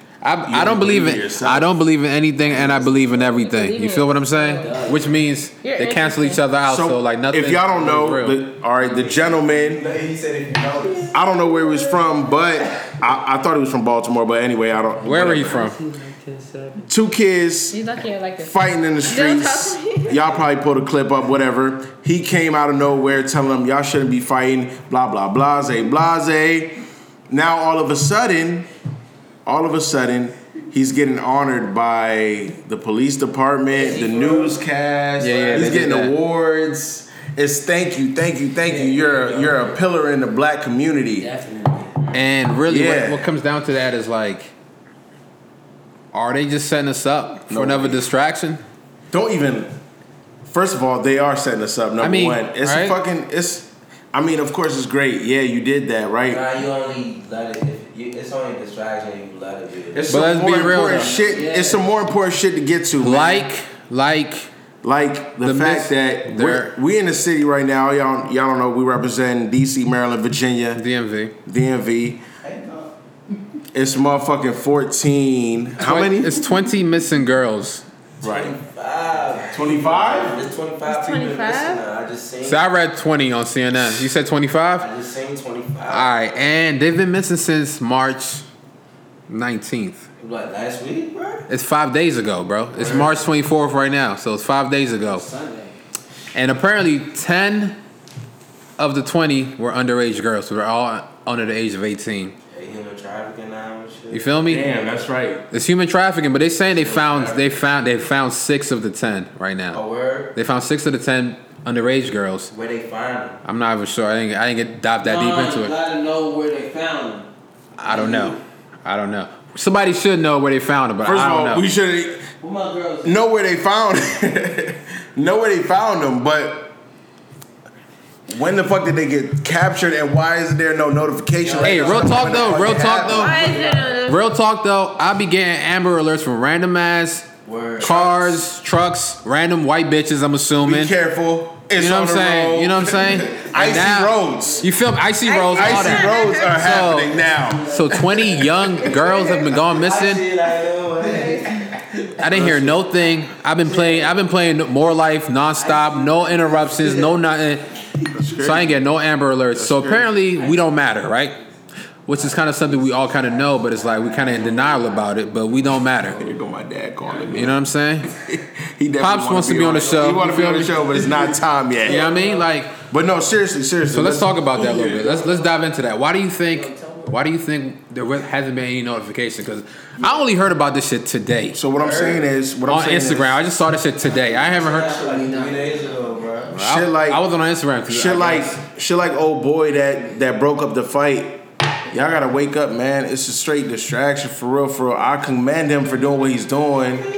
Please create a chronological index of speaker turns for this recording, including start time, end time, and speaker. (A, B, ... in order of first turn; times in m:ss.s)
0:00.2-0:08.4 A
0:00.5-0:01.8 B
0:03.2-0:04.9 C
0:04.6-0:05.2 D
0:05.6-0:06.5 C
0:06.6-0:09.8 B
0:08.8-0:09.2 D
0:09.3-0:11.2 E
0:11.1-0:15.6 B
0:15.0-0:16.9 D
0:15.0-0:15.8 A
0:16.9-0:17.8 B
0:17.7-0:20.3 C
0:18.4-0:26.8 B
0:27.3-0:28.7 B
0:29.4-0:41.3 B
0:33.7-0:34.6 D
0:35.2-0:36.2 A
0:38.7-0:39.8 D
0:41.2-0:42.2 D
0:42.1-0:44.5 A
0:42.7-0:43.3 B
0:46.1-0:48.6 A
0:47.5-0:48.1 B
0:49.1-0:49.7 B
0:50.5-0:56.4 B
0:52.0-0:53.0 A
0:56.3-1:00.0 E
1:00.0-1:03.5 B
1:00.1-1:01.1 A
1:00.8-1:01.9 D
1:03.0-1:04.5 A
1:04.8-1:10.8 B
1:05.4-1:06.7 A
1:10.8-1:11.4 A
1:11.5-1:12.2 B
1:12.4-1:12.9 E
1:13.7-1:16.4 B
1:15.8-1:17.8 A
1:18.2-1:18.6 B
1:18.2-1:22.6 E
1:19.1-1:20.3 D
1:19.5-1:20.4 B
1:20.9-1:21.8 C
1:22.4-1:24.9 A
1:24.8-1:26.1 E
1:25.9-1:28.4 A
1:29.3-1:30.1 A
1:30.2-1:31.4 E
1:31.5-1:35.3 A
1:32.8-1:33.1 E
1:35.0-1:35.8 D
1:36.3-1:37.8 A
1:38.8-1:42.4 A
1:42.5-1:44.4 E
1:44.1-1:44.7 A
1:44.5-1:45.5 B
1:45.5-1:49.8 A
1:46.8-1:47.4 E
1:49.7-1:50.3 E
1:50.3-1:52.5 A
1:52.5-1:53.4 E
1:53.4-1:55.7 A
1:55.0-1:57.3 D
1:57.8-2:01.7 A
1:57.8-1:58.4 D
2:01.0-2:02.3 B
2:02.4-2:03.1 D
2:03.0-2:06.7 B
2:08.3-2:13.7 B
2:11.4-2:12.2 D
2:11.6-2:13.5 A
2:13.1-2:14.3 C
2:13.4-2:13.6 D
2:14.1-2:21.0 A
2:17.5-2:18.0 E
2:20.6-2:24.7 B
2:21.8-2:30.2 A
2:25.2-2:26.6 C
2:25.5-2:29.3 B
2:27.2-2:27.6 E
2:29.7-2:31.8 E
2:32.2-2:37.7 A
2:32.2-2:32.8 B
2:35.6-2:37.2 D
2:38.1-2:38.8 B
2:38.4-2:41.4 A
2:39.5-2:40.2 B
2:40.4-2:40.7 D
2:42.1-2:46.3 A
2:42.2-2:44.9 D
2:46.1-2:52.0 B
2:47.3-2:48.1 A
2:49.0-2:51.0 A
2:51.8-2:52.8 A
2:51.8-2:52.4 D
2:52.8-2:55.0 B
2:53.9-3:01.6 A
2:54.8-2:55.3 D
2:56.5-2:57.2 D
3:01.5-3:03.4 B
3:01.8-3:02.2 E
3:02.7-3:05.0 A
3:04.2-3:06.5 E
3:04.5-3:06.0 D
3:06.5-3:08.6 A
3:06.5-3:07.2 B
3:07.9-3:17.1 B